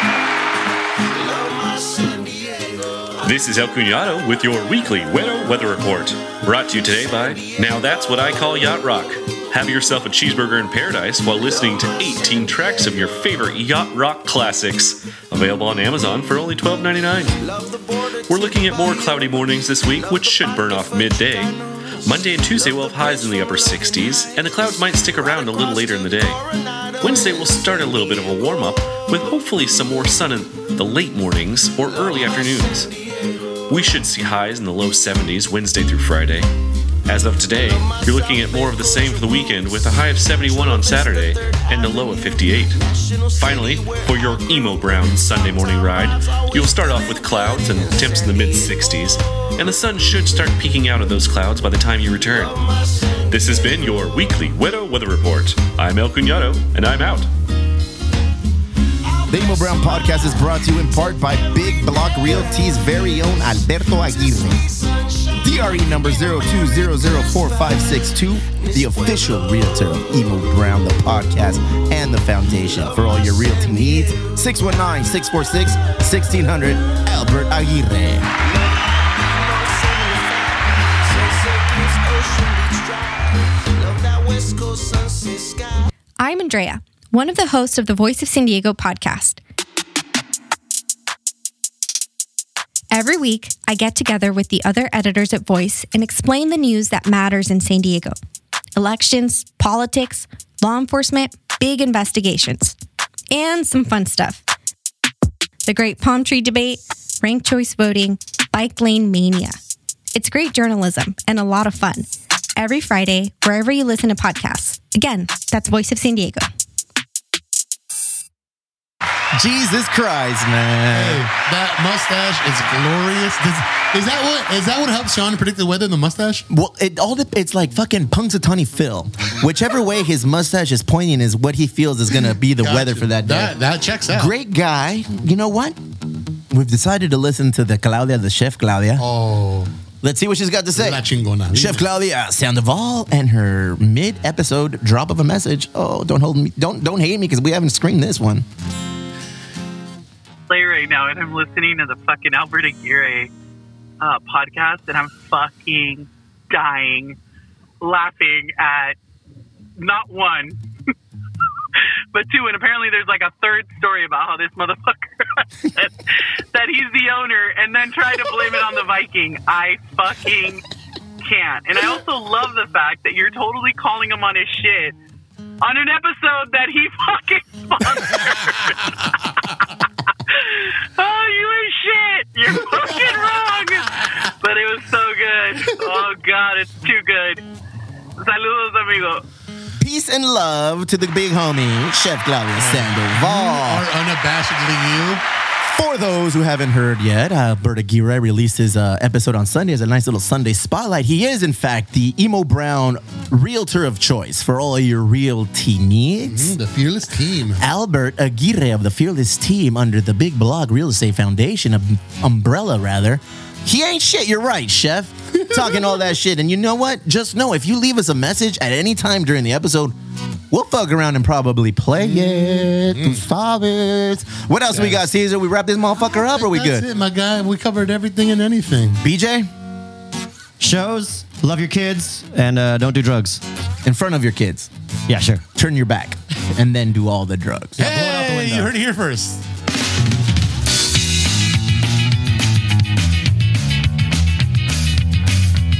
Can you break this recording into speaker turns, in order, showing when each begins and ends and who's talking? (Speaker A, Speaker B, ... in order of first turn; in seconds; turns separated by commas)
Speaker A: 3.2-17.6, Speaker A: 18.2-32.9, Speaker A: 33.7-36.5, Speaker A: 37.1-42.8, Speaker A: 43.3-52.7, Speaker A: 53.3-57.3, Speaker B: 59.3-64.7, Speaker B: 65.3-78.3, Speaker C: 86.2-89.4, Speaker C: 92.9-98.2, Speaker C: 98.8-102.8, Speaker C: 103.3-104.4, Speaker C: 105.7-109.6, Speaker C: 110.1-116.5, Speaker B: 119.3-121.2, Speaker D: 120.9-126.5, Speaker B: 126.5-133.5, Speaker D: 132.6-134.3, Speaker B: 134.1-135.8, Speaker B: 136.5-139.0, Speaker D: 139.0-139.7, Speaker B: 140.0-148.4, Speaker D: 140.7-141.9, Speaker E: 150.5-153.3, Speaker E: 154.0-157.2, Speaker E: 157.8-158.9, Speaker E: 159.8-160.6, Speaker E: 162.1-165.9, Speaker E: 166.5-170.6, Speaker E: 171.2-174.9, Speaker E: 175.6-179.7, Speaker E: 180.3-187.4, Speaker E: 188.2-189.2, Speaker B: 189.8-193.8, Speaker D: 192.6-195.2, Speaker B: 195.6-206.6, Speaker D: 206.2-207.6, Speaker B: 207.6-219.9, Speaker D: 215.5-215.8, Speaker B: 220.5-226.8, Speaker D: 222.0-223.2, Speaker D: 224.7-225.0, Speaker D: 226.0-229.0, Speaker B: 229.0-229.5, Speaker F: 230.6-233.4, Speaker B: 233.8-234.7, Speaker F: 235.1-235.4, Speaker B: 235.5-237.8, Speaker D: 237.8-239.4, Speaker F: 237.8-238.7